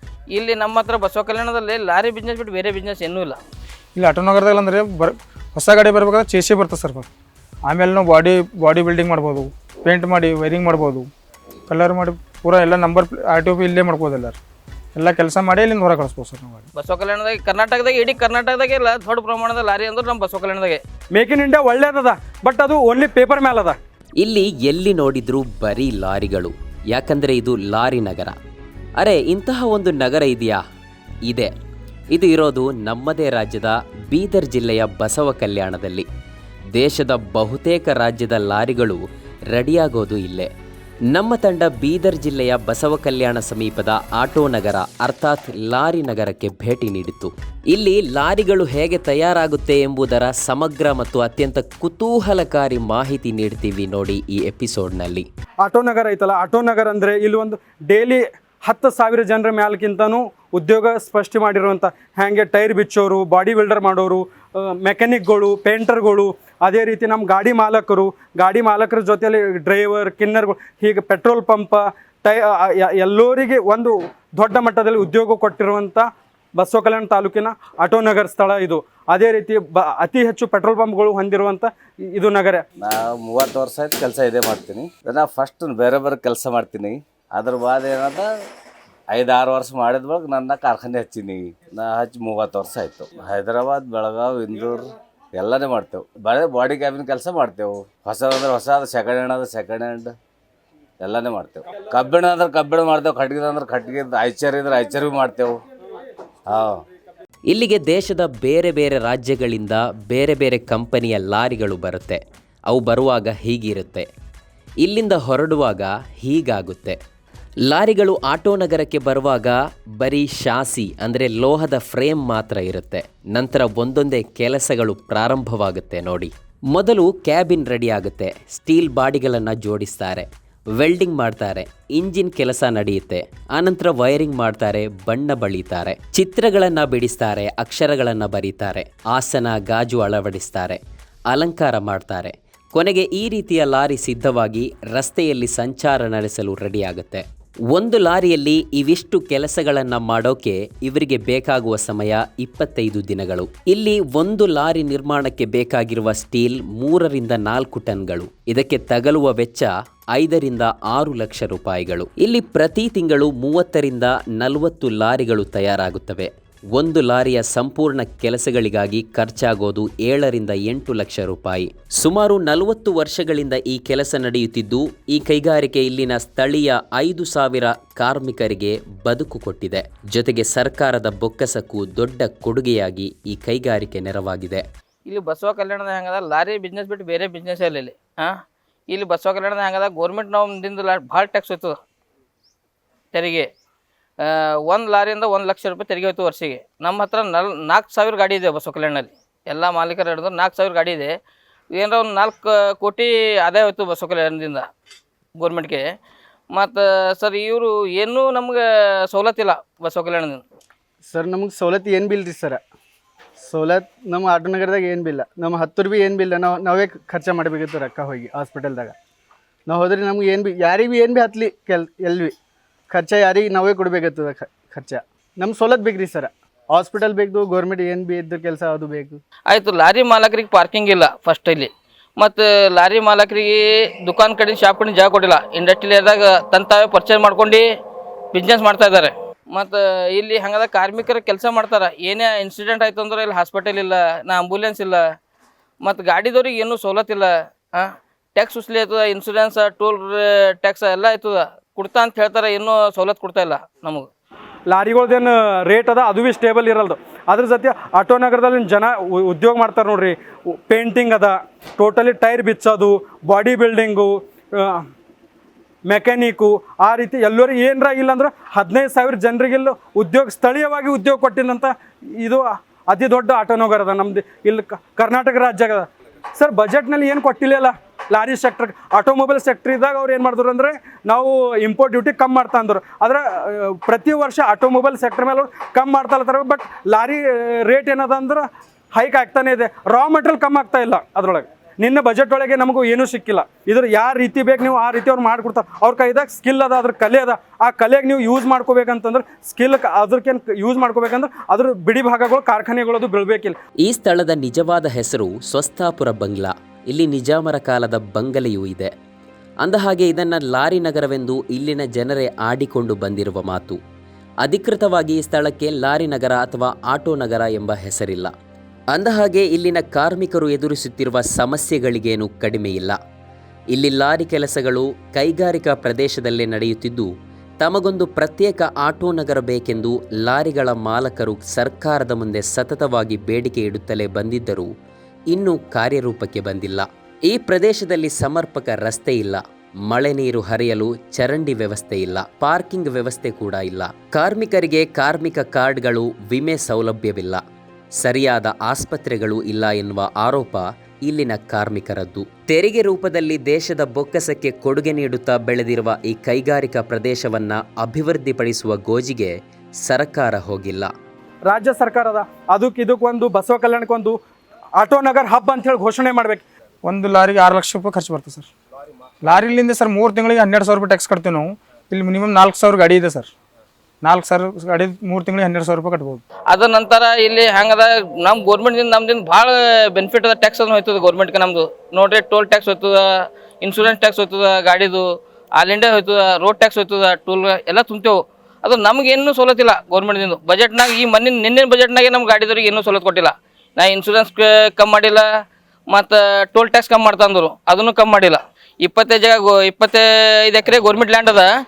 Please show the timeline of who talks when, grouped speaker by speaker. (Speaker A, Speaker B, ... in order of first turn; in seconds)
Speaker A: 0.3-3.4, 16.8-20.8, 185.1-188.4, 188.9-191.8, 193.1-193.5, 194.2-201.1, 201.7-204.7, 205.4-205.8, 206.5-210.4, 229.5-237.7, 238.3-245.0, 245.8-254.1, 376.5-383.1, 383.6-385.1, 385.6-395.3, 395.9-401.5
Speaker B: 4.0-7.1, 7.7-11.1, 11.7-14.4, 14.9-16.7, 366.8-368.5, 369.2-373.3, 374.0-376.2
Speaker C: 21.1-23.8, 55.6-82.6, 254.7-260.2, 260.7-264.8, 265.9-303.6, 361.4-364.2, 364.8-366.4
Speaker D: 24.2-28.4, 29.0-30.6, 31.3-31.5, 32.1-36.1, 36.8-40.5, 41.1-55.3, 107.5-114.1, 114.8-117.0, 117.7-130.3, 130.8-140.8, 141.3-184.6, 303.8-308.9, 309.6-313.8, 314.4-318.3, 318.9-323.0, 323.7-327.1, 327.6-334.7, 335.3-347.4, 348.0-360.9
Speaker E: 82.8-88.3, 89.1-100.1, 101.0-105.6, 106.5-106.8
Speaker F: 211.1-212.6, 213.4-218.9, 219.7-222.3, 222.9-229.2